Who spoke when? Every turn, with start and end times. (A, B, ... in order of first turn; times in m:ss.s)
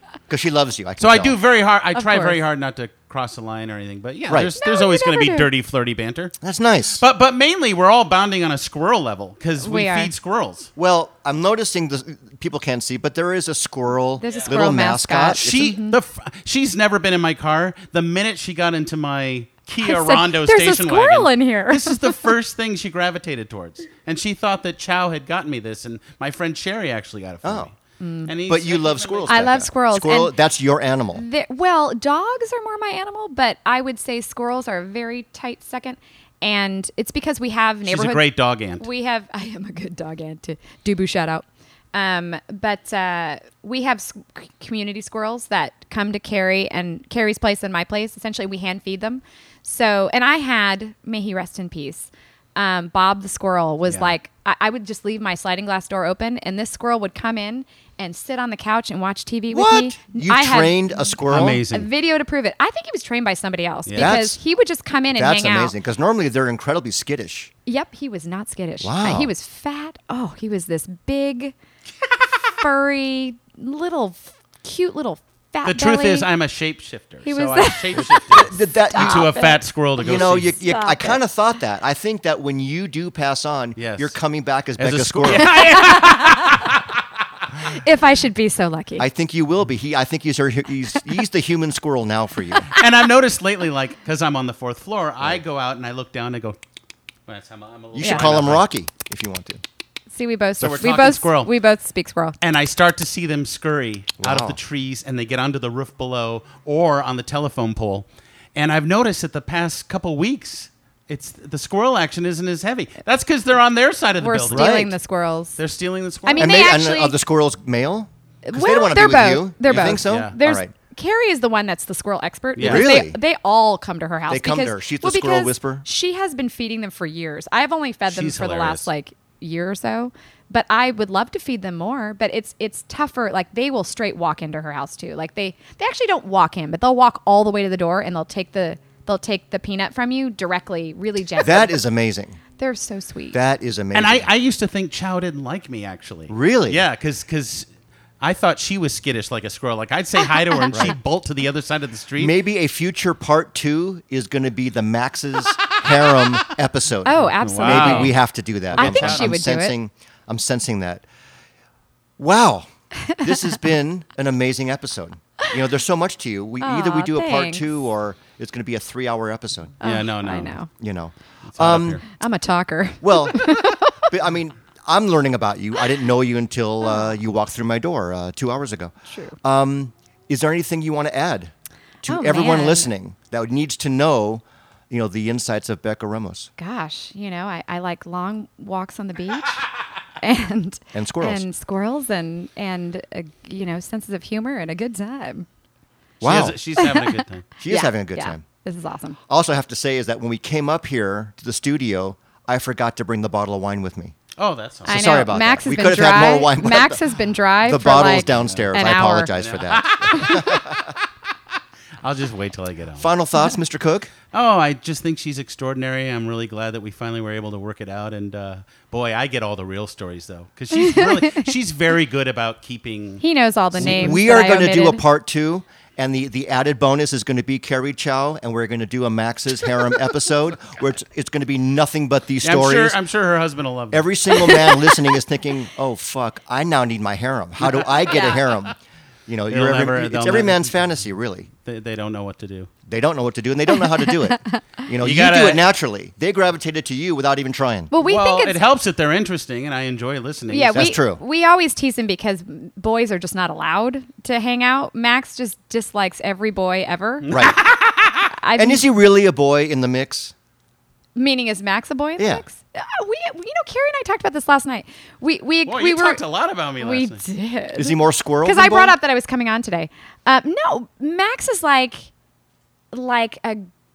0:00.3-0:01.4 A
0:01.0-0:06.4 B
0:02.0-0:02.4 C
0:04.3-0:04.5 A
0:04.4-0:05.5 C
0:06.4-0:07.0 A
0:07.0-0:10.7 B
0:09.6-0:10.1 C
0:10.8-0:15.8 A
0:14.2-0:16.0 C
0:14.3-0:14.6 B
0:15.4-0:29.5 B
0:19.8-0:22.2 C
0:27.4-0:27.7 A
0:28.0-0:28.3 C
0:28.5-0:31.2 A
0:29.3-0:30.4 C
0:31.1-1:05.8 C
0:37.9-0:38.9 B
0:53.9-0:54.1 B
0:59.5-1:01.6 A
1:01.3-1:01.9 B
1:03.9-1:04.2 B
1:04.0-1:04.4 A
1:05.1-1:07.5 A
1:07.7-1:11.5 C
1:08.8-1:09.3 A
1:12.6-1:16.3 C
1:15.6-1:20.6 B
1:17.2-1:19.6 C
1:18.0-1:19.3 A
1:20.0-1:25.5 A
1:20.1-1:21.2 C
1:23.8-1:24.2 B
1:24.8-1:27.0 B
1:25.3-1:26.7 C
1:27.6-1:29.1 C
1:29.0-1:32.7 A
1:32.8-1:36.6 B
1:37.3-1:38.7 B
1:37.9-1:39.6 A
1:38.0-1:38.3 C
1:40.1-1:42.4 C
1:40.6-1:41.5 B
1:42.4-1:54.8 B
1:44.2-1:44.6 A
1:54.2-1:55.6 C
1:54.5-1:54.9 A
1:55.6-1:56.6 B
1:56.2-1:57.2 C
1:56.4-2:00.7 A
1:58.4-2:21.8 C
1:59.7-2:00.4 B
2:02.6-2:02.9 B
2:02.6-2:03.2 A
2:04.3-2:05.9 A
2:08.1-2:08.9 B
2:21.4-2:22.4 A
2:22.6-2:23.4 C
2:23.3-2:24.3 A
2:24.0-2:27.7 B
2:26.3-2:26.8 A
2:28.2-2:32.3 B
2:32.2-2:41.1 A
2:37.0-2:38.2 C
2:37.4-2:38.2 B
2:38.7-2:39.4 B
2:38.7-2:39.8 C
2:42.2-2:49.8 A
2:46.6-2:47.6 C
2:49.8-2:50.7 C
2:49.8-2:50.6 B
2:50.8-2:52.0 A
2:51.5-2:52.0 B
2:52.1-2:54.0 C
2:53.0-3:01.5 A
2:56.8-2:57.1 C
2:59.1-2:59.4 C
3:02.0-3:06.5 A
3:02.1-3:02.9 C
3:06.6-3:09.6 C
3:10.2-3:15.5 C
3:10.9-3:11.4 A
3:16.2-3:16.6 A
3:16.2-3:17.5 B
3:16.8-3:19.2 C
3:17.6-3:18.4 A
3:19.3-3:24.1 A
3:24.4-3:25.2 B
3:24.8-3:27.0 A
3:24.9-3:29.4 C
3:27.6-3:30.9 A
3:28.2-3:31.0 B
3:32.0-3:33.1 B
3:33.0-3:34.1 A
3:34.3-3:43.2 B
3:40.7-3:41.5 C
3:43.2-3:45.0 C
3:43.8-3:53.0 A
3:43.8-3:44.2 B
3:52.4-3:54.6 B
3:53.9-3:58.8 A
3:57.7-3:58.5 B
3:58.1-3:58.4 C
3:59.3-4:01.5 A
3:59.5-4:00.7 B
4:01.6-4:02.7 B
4:02.9-4:07.9 A
4:05.0-4:05.6 B
4:07.9-4:08.6 C
4:08.0-4:10.9 B
4:10.5-4:17.3 C
4:10.7-4:11.2 A
4:17.2-4:18.3 B
4:17.3-4:17.6 A
4:18.3-4:18.8 C
4:18.6-4:20.3 A
4:21.2-4:26.2 C
4:22.2-4:22.4 A
4:25.7-4:27.2 B
4:26.8-4:32.1 C
4:27.8-4:29.0 A
4:32.9-4:33.7 C